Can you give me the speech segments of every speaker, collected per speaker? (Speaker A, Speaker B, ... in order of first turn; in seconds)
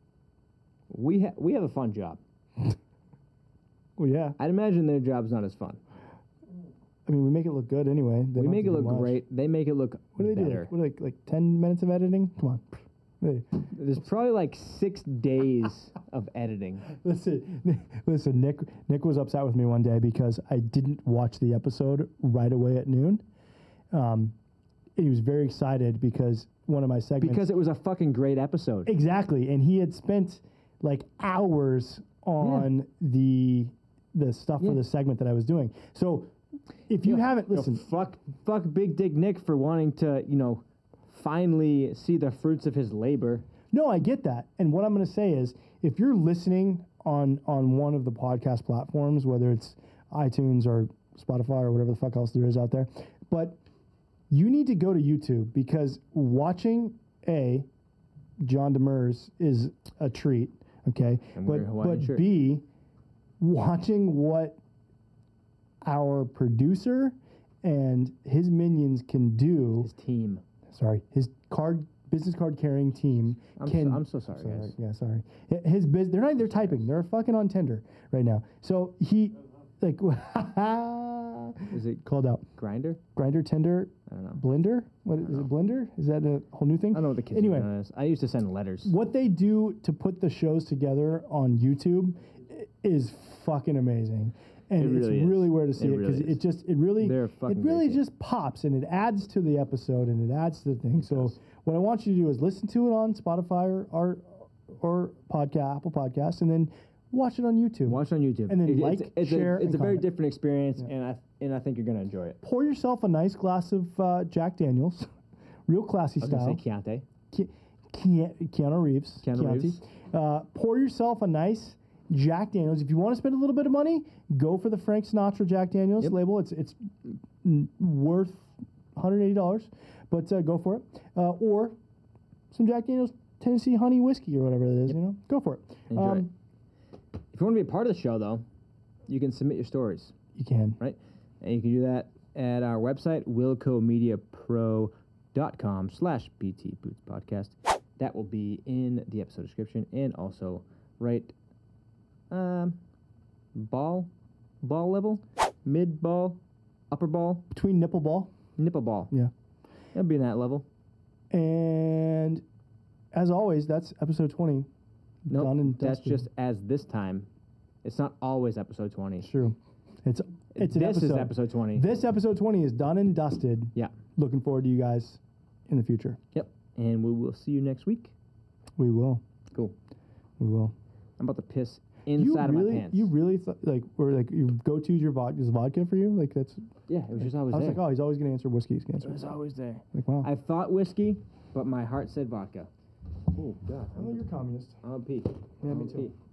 Speaker A: 0.9-2.2, 4.4-5.8, 8.4-10.7, 13.7-16.9, 27.2-28.9, 32.4-32.7, 37.0-43.5, 61.3-62.3, 69.8-70.4, 73.6-74.7, 81.7-83.0, 84.1-84.4, 86.9-88.9, 94.8-96.4, 97.0-98.0, 101.0-101.4, 107.9-112.4, 116.2-117.0, 119.2-119.8, 135.9-136.3, 137.3-138.4, 139.1-140.2, 140.8-151.3, 152.3-152.8, 153.6-154.1, 154.6-156.4, 156.9-157.5, 158.6-159.1, 159.9-160.7, 165.3-167.3, 167.8-169.3, 170.6-171.9, 176.3-178.1, 181.2-183.1, 186.9-187.8, 189.0-192.7, 193.3-194.2, 194.8-196.1
Speaker B: 4.0-4.4, 7.1-9.2, 10.2-13.6, 16.9-23.2, 23.9-24.4, 25.0-27.5, 28.9-36.3, 36.9-37.8, 43.7-53.6, 54.3-57.7, 58.4-62.6, 63.4-64.6, 65.8-69.9, 70.7-82.5, 83.2-87.7, 88.8-110.1, 112.4-115.1, 115.7-116.6, 117.3-131.8, 132.5-136.3, 140.4-140.8, 157.5-158.3, 161.3-162.4, 163.1-164.7, 165.3-166.2, 169.2-176.2, 178.8-179.2, 180.4-180.7, 182.2-186.6, 187.2-189.3, 189.9-190.3, 193.9-194.8, 195.6-196.1